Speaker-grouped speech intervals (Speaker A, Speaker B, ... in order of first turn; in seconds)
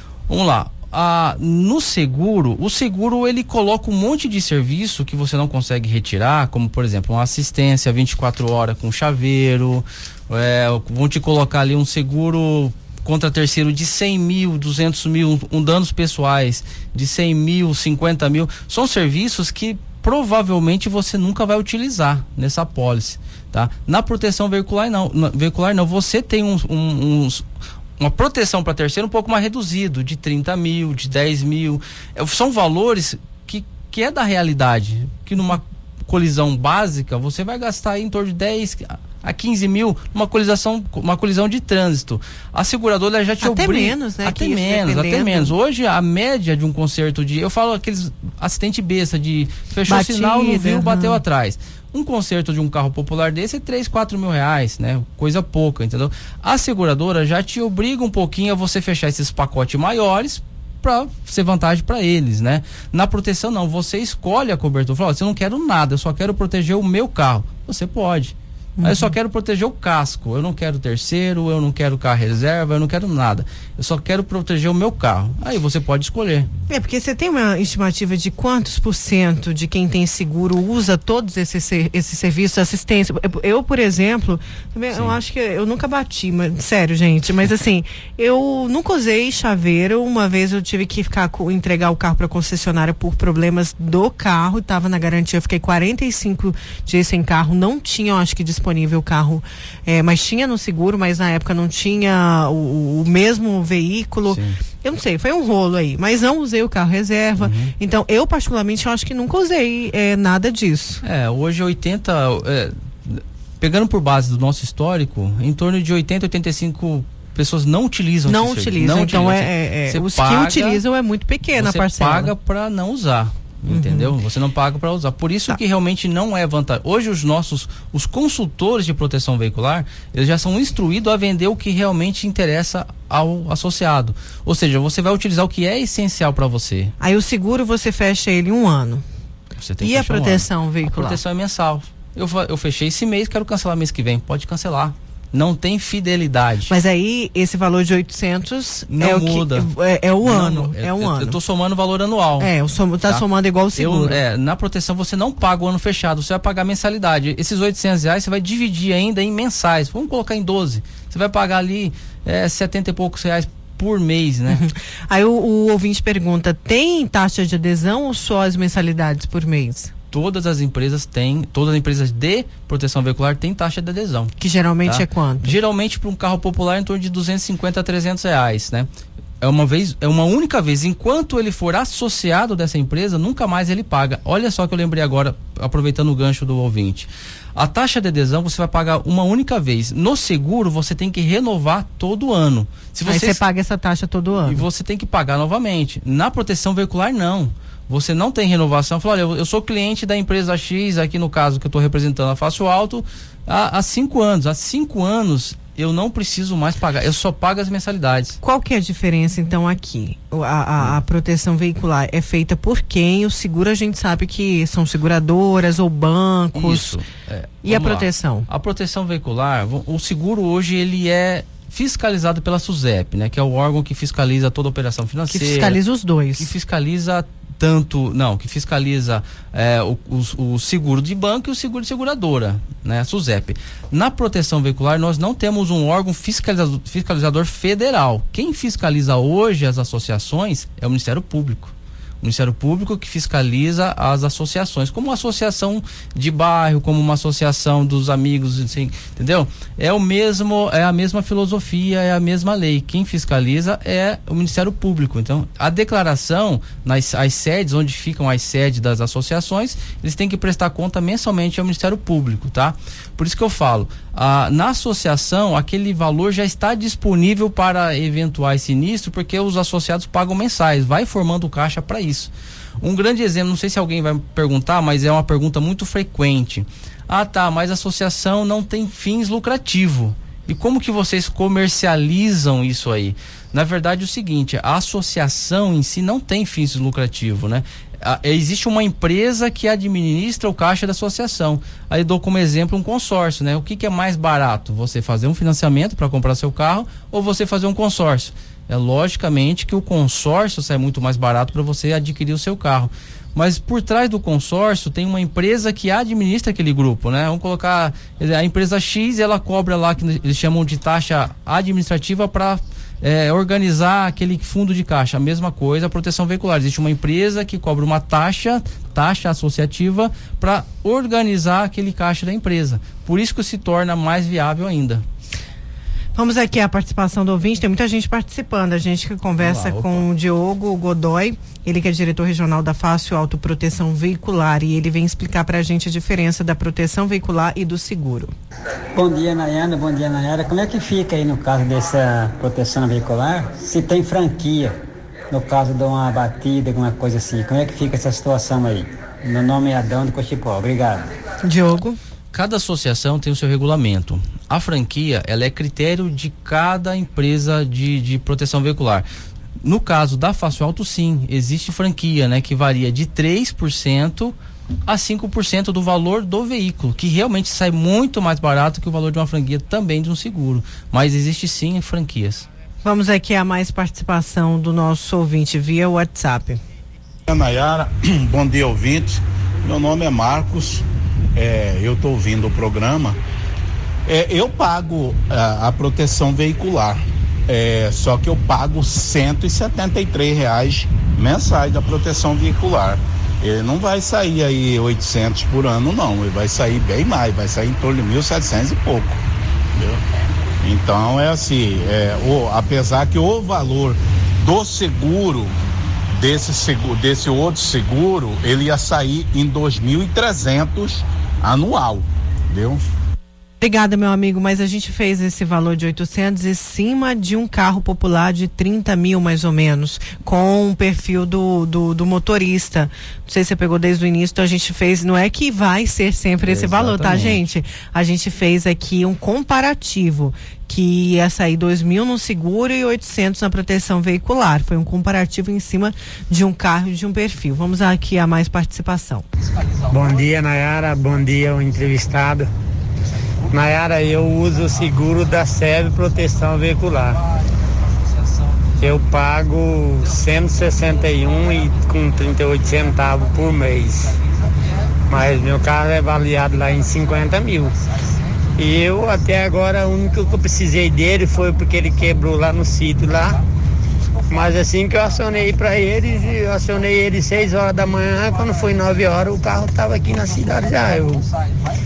Speaker A: 0.3-27.4, 28.0-76.5, 84.9-85.2, 104.2-104.6, 107.4-107.7, 111.0-120.8, 121.5-136.9, 139.6-146.8, 148.9-149.7, 150.2-152.5, 153.1-164.6, 170.1-174.3, 174.8-178.9, 179.4-193.4, 194.4-208.4, 216.6-225.8, 226.4-325.0, 329.4-330.1, 352.3-359.1, 359.6-372.5, 426.4-427.4
Speaker B: 43.4-45.5, 49.9-51.2, 68.8-69.1, 76.7-111.0, 118.3-122.3, 123.7-124.2, 137.0-139.0, 139.8-141.2, 146.7-151.4, 152.4-154.2, 164.5-169.9, 174.4-175.6, 193.1-194.6, 208.4-217.0, 217.6-218.5, 225.3-226.5, 326.2-338.3, 351.4-352.0, 372.8-376.6, 413.6-439.3
Speaker C: 338.9-351.1
Speaker D: 377.3-380.8, 381.4-383.2, 384.1-399.2, 400.6-405.5, 406.1-412.8
Speaker E: 439.9-442.5, 443.5-447.2, 448.8-454.1, 455.1-457.7, 458.6-463.4, 464.3-471.2